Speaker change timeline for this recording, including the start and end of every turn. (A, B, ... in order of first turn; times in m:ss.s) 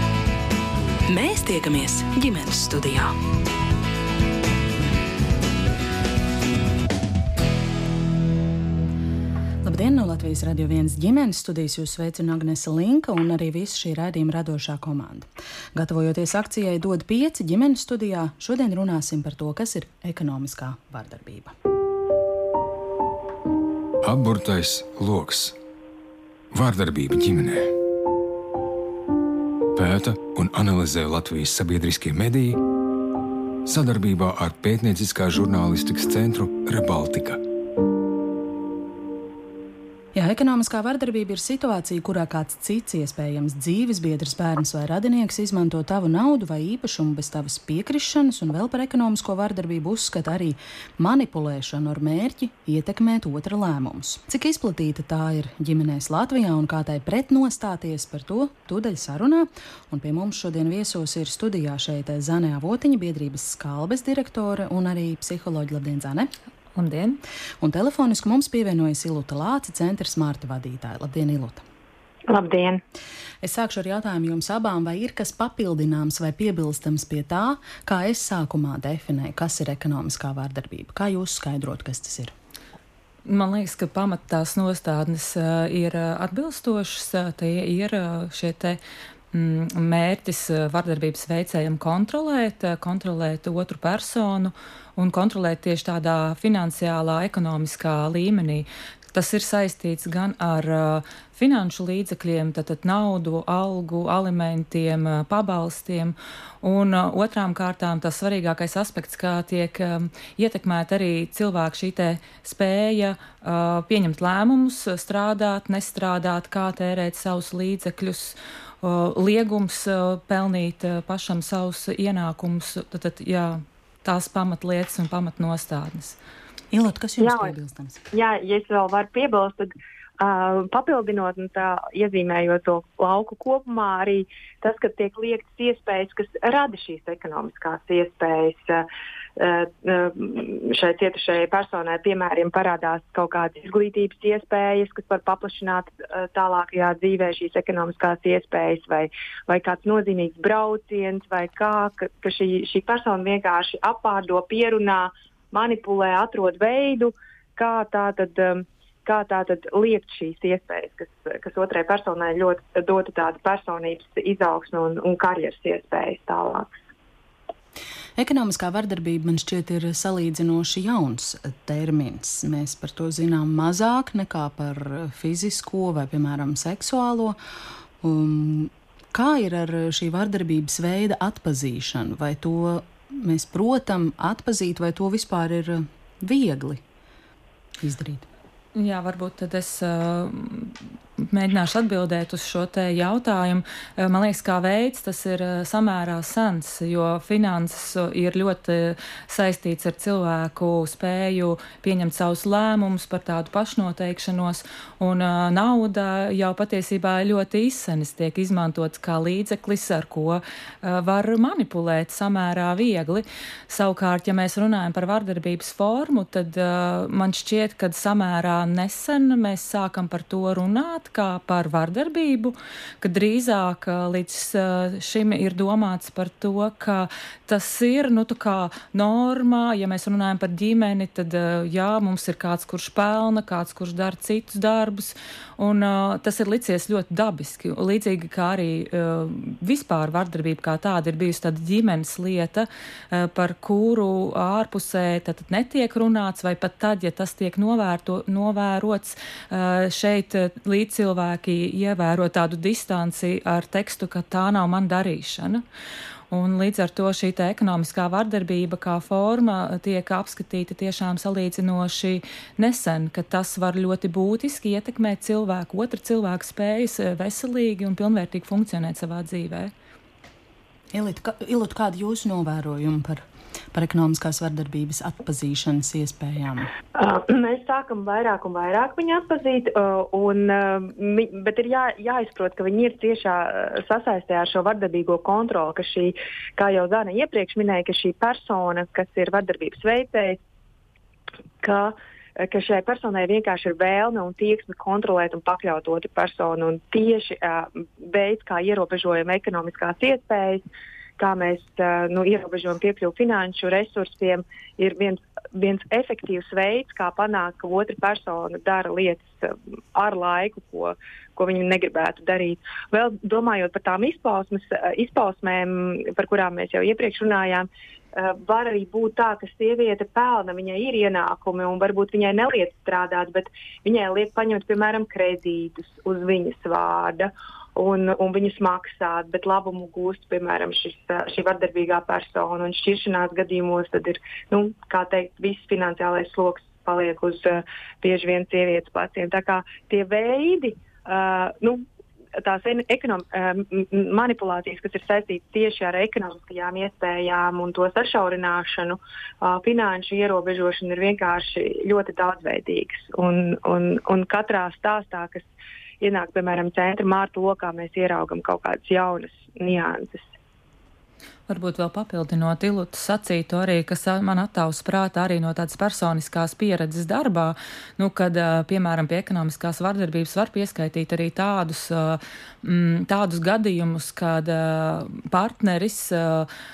0:01.1-0:03.2 A
0:09.6-0:21.5 B
0:24.0-0:25.6 C
0:26.5-0:27.7 C
0:29.7-0:32.6 C
0:33.6-0:37.4 C
0:40.1-1:06.3 B
1:06.7-1:07.2 D
1:07.6-1:11.6 B
1:12.3-1:12.8 E
1:13.4-1:22.3 B
1:23.2-1:28.8 D
1:29.3-2:06.2 D
2:06.7-2:08.0 B
2:07.2-2:07.5 E
2:08.1-2:46.7 E
2:48.2-2:57.4 B
2:58.0-3:06.8 B
3:07.8-3:08.3 B
3:08.7-4:15.6 D
4:16.3-4:29.7 D
4:30.9-4:36.7 B
4:36.9-4:50.4 E
4:51.6-5:00.6 E
5:01.2-5:41.8 E
5:42.4-5:55.5 E
5:56.0-6:00.3 E
6:01.5-6:16.5 D